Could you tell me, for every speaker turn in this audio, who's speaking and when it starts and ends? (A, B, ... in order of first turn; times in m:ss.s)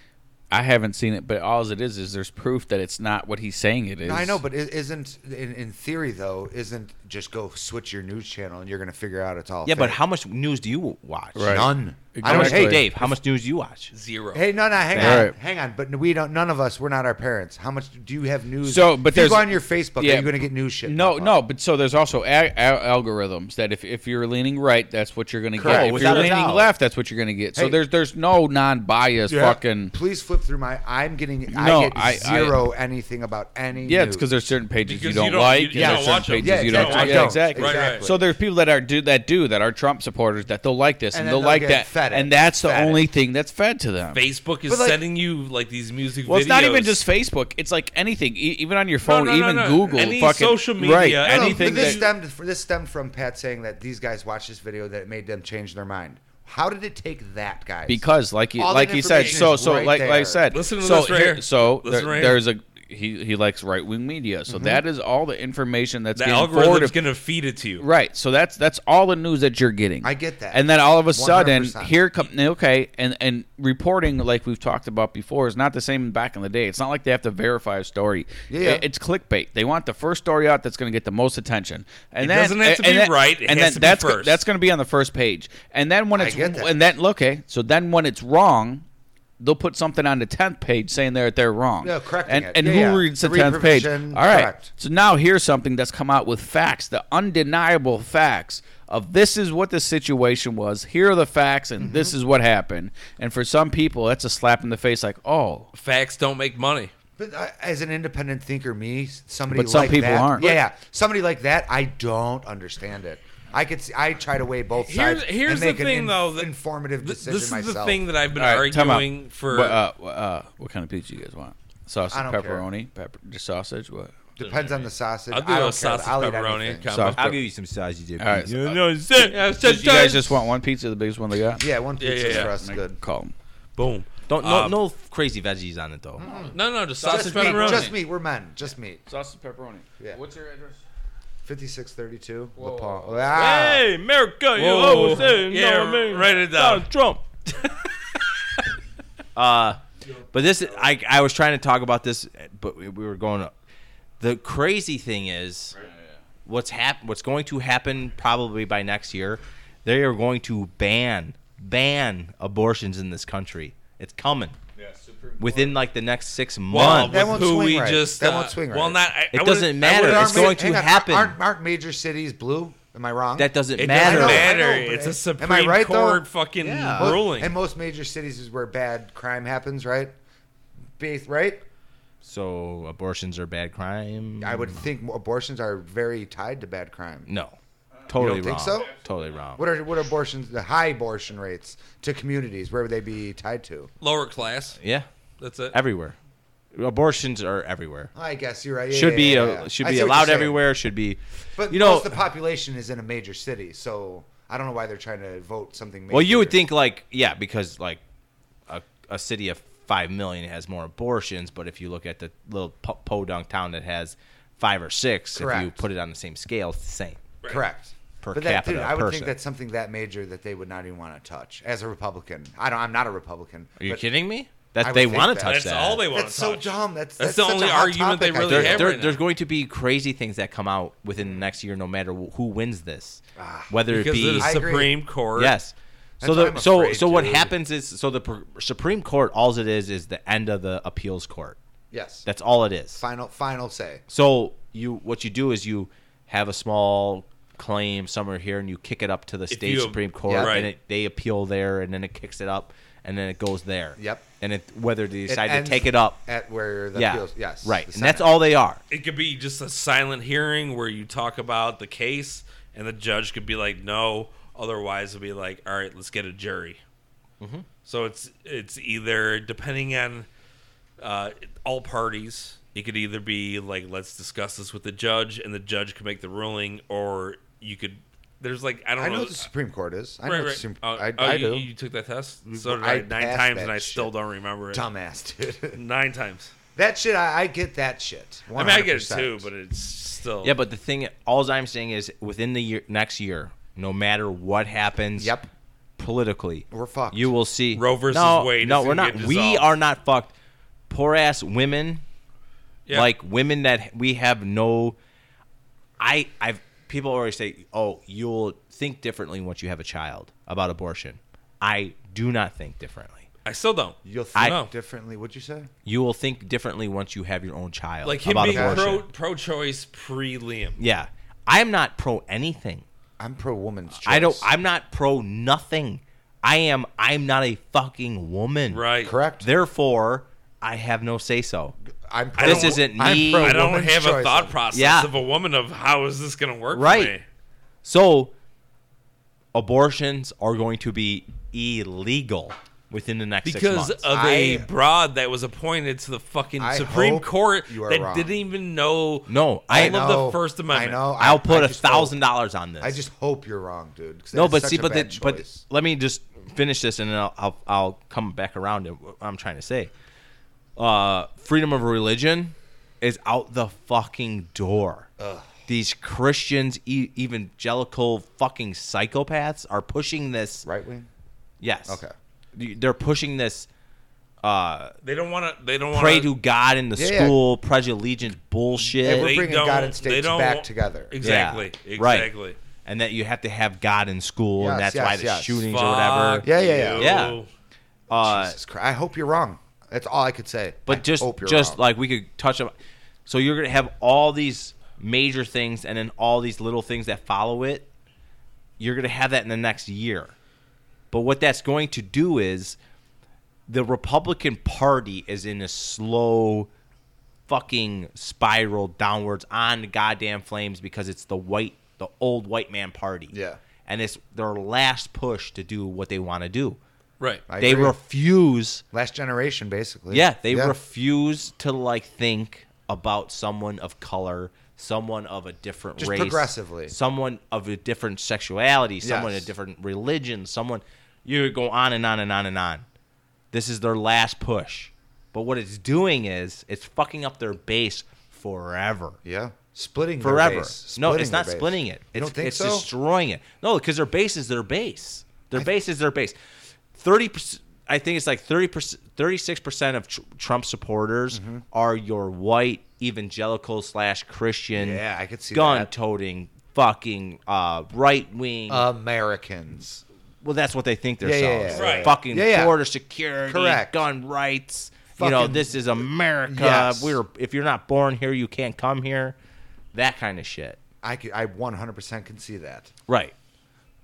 0:00.5-0:04.4 A
0:04.0-0:10.0 B
0:09.6-0:11.7 C
0:11.4-0:12.9 A
0:11.4-0:13.2 B
0:12.2-0:13.9 C
0:13.9-0:14.4 D
0:14.3-0:21.4 B
0:14.9-0:15.3 C
0:15.0-0:15.4 A
0:18.6-0:29.9 A
0:25.6-0:26.5 B
0:25.6-0:26.7 C
0:27.6-0:27.8 B
0:29.3-0:34.3 B
0:31.5-0:32.6 A
0:33.8-0:44.2 A
0:34.8-0:38.1 D
0:35.7-0:38.3 B
0:41.1-0:43.0 B
0:44.1-0:47.0 D
0:44.7-0:45.0 B
0:46.3-0:52.0 A
0:49.0-0:52.1 D
0:51.2-1:00.4 B
0:57.9-1:07.0 A
0:59.1-0:59.4 D
1:00.5-1:02.4 D
1:04.5-1:04.8 B
1:06.2-1:07.8 D
1:07.8-1:28.8 A
1:10.0-1:12.0 B
1:18.5-1:18.8 B
1:22.2-1:24.4 D
1:26.1-1:26.9 B
1:29.4-1:45.7 A
1:31.8-1:34.7 B
1:41.8-1:42.2 B
1:45.7-1:46.9 D
1:47.2-1:58.0 B
1:49.5-1:50.5 A
1:54.8-1:59.8 D
1:58.4-2:04.2 A
2:02.1-2:02.7 B
2:04.4-2:06.9 B
2:05.3-2:07.4 D
2:06.9-2:07.3 A
2:07.2-2:09.4 C
2:08.2-2:08.8 A
2:09.2-2:10.4 D
2:09.5-2:11.6 A
2:11.6-2:13.0 B
2:12.0-2:12.5 D
2:12.3-2:13.3 A
2:13.8-2:14.8 D
2:14.3-2:16.3 C
2:16.2-2:19.0 B
2:16.5-2:17.9 D
2:17.0-2:17.9 A
2:19.1-2:20.8 A
2:21.4-2:23.9 B
2:22.6-2:23.3 A
2:23.3-2:27.2 C
2:24.6-2:26.9 D
2:29.4-2:33.5 C
2:34.2-2:35.8 C
2:35.8-2:36.0 A
2:36.4-2:44.6 C
2:44.8-2:45.8 A
2:45.4-2:47.4 C
2:46.7-2:50.6 D
2:46.7-2:49.0 B
2:49.3-2:51.4 C
2:49.8-2:56.2 B
2:53.4-2:54.5 C
2:53.8-2:57.6 D
2:56.6-2:57.2 C
2:57.0-3:00.1 B
3:01.0-3:01.6 B
3:02.2-3:04.8 C
3:04.4-3:07.3 B
3:07.3-3:07.6 C
3:08.1-3:09.6 C
3:08.2-3:08.9 B
3:09.6-3:13.9 B
3:14.0-3:14.8 D
3:14.8-3:15.1 C
3:15.4-3:15.8 D
3:15.7-3:16.2 C
3:16.7-3:18.1 C
3:18.2-3:20.6 B
3:18.9-3:22.2 C
3:21.6-3:26.6 B
3:26.1-3:28.0 C
3:28.7-3:37.2 C
3:35.3-3:35.8 B
3:37.5-3:44.1 B
3:38.2-3:39.4 C
3:43.8-3:46.1 C
3:44.8-3:49.0 B
3:45.4-3:49.2 D
3:48.5-3:54.6 C
3:53.4-3:53.8 B
3:53.9-3:55.6 D
3:54.4-3:55.0 B
3:55.4-4:01.6 C
3:56.2-3:57.5 B
4:01.9-4:02.3 B
4:02.2-4:03.0 C
4:03.0-4:04.0 B
4:04.1-4:16.2 C
4:09.5-4:10.7 D
4:10.3-4:10.6 B
4:14.0-4:14.3 B
4:15.3-4:18.4 B
4:16.9-4:18.8 C
4:18.9-4:26.8 D
4:27.4-4:27.7 C
4:27.8-4:30.3 D
4:31.0-4:39.5 D
4:39.0-4:41.7 B
4:40.2-4:44.8 D
4:42.5-4:44.1 B
4:44.7-4:45.8 B
4:45.7-4:46.5 D
4:46.8-4:49.5 B
4:48.6-4:50.6 D
4:50.4-4:55.4 C
4:55.2-4:55.5 B
4:56.0-5:00.3 C
4:56.7-4:57.3 B
4:57.7-4:59.7 D
5:00.9-5:02.0 C
5:02.9-5:05.0 C
5:06.0-5:13.3 C
5:13.4-5:14.7 D
5:14.0-5:15.7 B
5:15.8-5:19.0 C
5:18.0-5:20.8 D
5:18.4-5:19.0 B
5:20.8-5:22.8 C
5:23.2-5:24.5 B
5:24.0-5:28.8 C
5:28.7-5:29.1 D
5:29.0-5:29.5 B
5:29.4-5:31.7 C
5:32.1-5:34.6 B
5:32.4-5:33.6 C
5:32.4-5:37.2 D
5:34.7-5:35.1 C
5:36.7-5:37.1 C
5:37.8-5:38.3 C
5:39.5-5:44.1 C
5:43.4-5:51.1 D
5:44.1-5:44.7 B
5:46.6-5:48.3 B
5:49.3-5:50.0 C
5:49.7-5:52.2 B
5:51.2-5:53.0 C
5:52.8-5:55.6 B
5:54.3-5:59.9 C
6:00.8-6:05.1 C
6:05.2-6:05.5 B
6:05.7-6:10.6 C
6:10.6-6:11.1 B
6:11.6-6:12.0 C
6:11.9-6:12.1 B
6:12.5-6:13.7 C
6:14.4-6:15.0 C
6:15.0-6:16.3 D
6:15.9-6:19.4 C
6:17.0-6:17.4 B
6:19.0-6:21.2 B
6:19.0-6:22.6 D
6:21.2-6:22.3 C
6:22.8-6:27.4 C
6:24.6-6:25.7 B
6:25.6-6:27.5 D
6:26.4-6:27.3 B
6:28.1-6:28.6 C
6:28.2-6:31.8 B
6:30.9-6:32.7 C
6:33.3-6:37.9 C
6:38.8-6:40.3 C
6:41.1-6:42.8 C
6:43.7-6:46.7 C
6:47.5-6:53.3 C
6:53.3-6:53.6 B
6:53.8-6:56.8 C
6:57.5-6:58.0 B
6:57.6-6:58.8 C
6:58.9-7:00.8 B
7:00.1-7:12.8 C
7:06.0-7:07.0 B
7:09.0-7:09.5 B
7:13.5-7:19.2 C
7:19.2-7:22.9 B
7:20.2-7:26.4 C
7:26.9-7:38.9 C
7:31.3-7:31.6 B
7:34.7-7:35.9 B
7:38.7-7:40.0 B
7:40.4-7:49.4 C
7:41.2-7:42.8 B
7:41.7-7:42.2 D
7:43.4-7:44.0 B
7:45.2-7:47.2 B
7:49.9-7:50.8 C
7:51.0-7:52.9 B
7:53.1-7:53.4 C